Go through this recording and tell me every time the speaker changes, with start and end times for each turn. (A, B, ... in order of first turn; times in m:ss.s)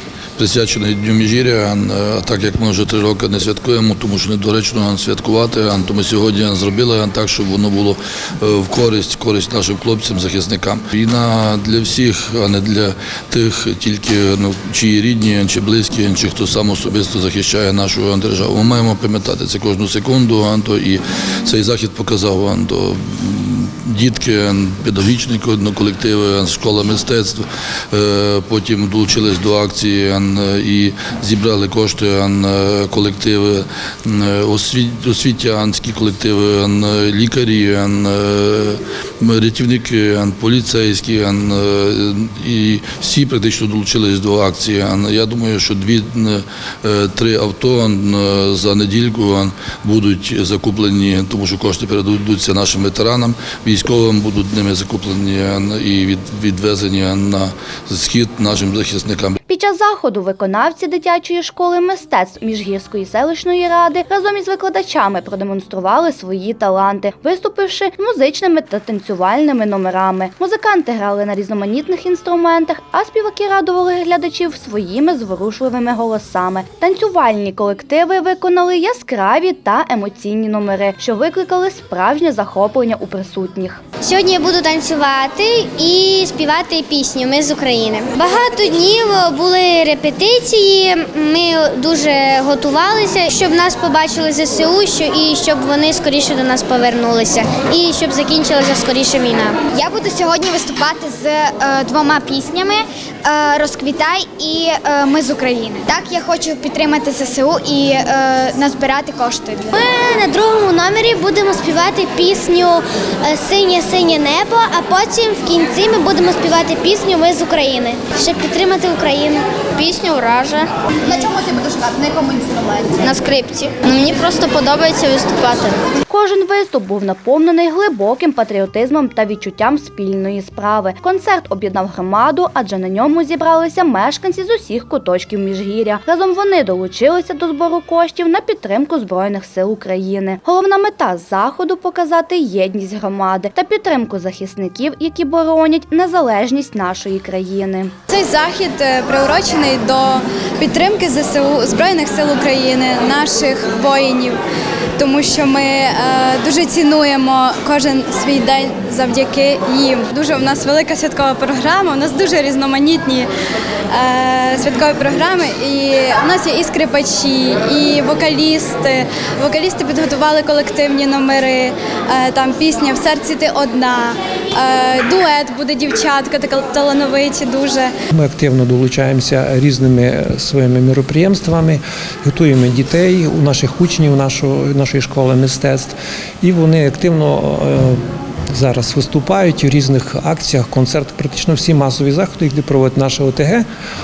0:00.4-0:59.4 A
0:59.5-1:23.8 B
1:24.0-1:39.6 C
1:39.7-1:49.7 D
1:49.7-2:05.8 C
2:06.1-2:27.9 B
2:28.1-2:34.4 E
2:35.0-2:43.3 E
2:43.9-2:57.9 E
2:58.1-3:08.0 F
3:08.5-3:13.6 F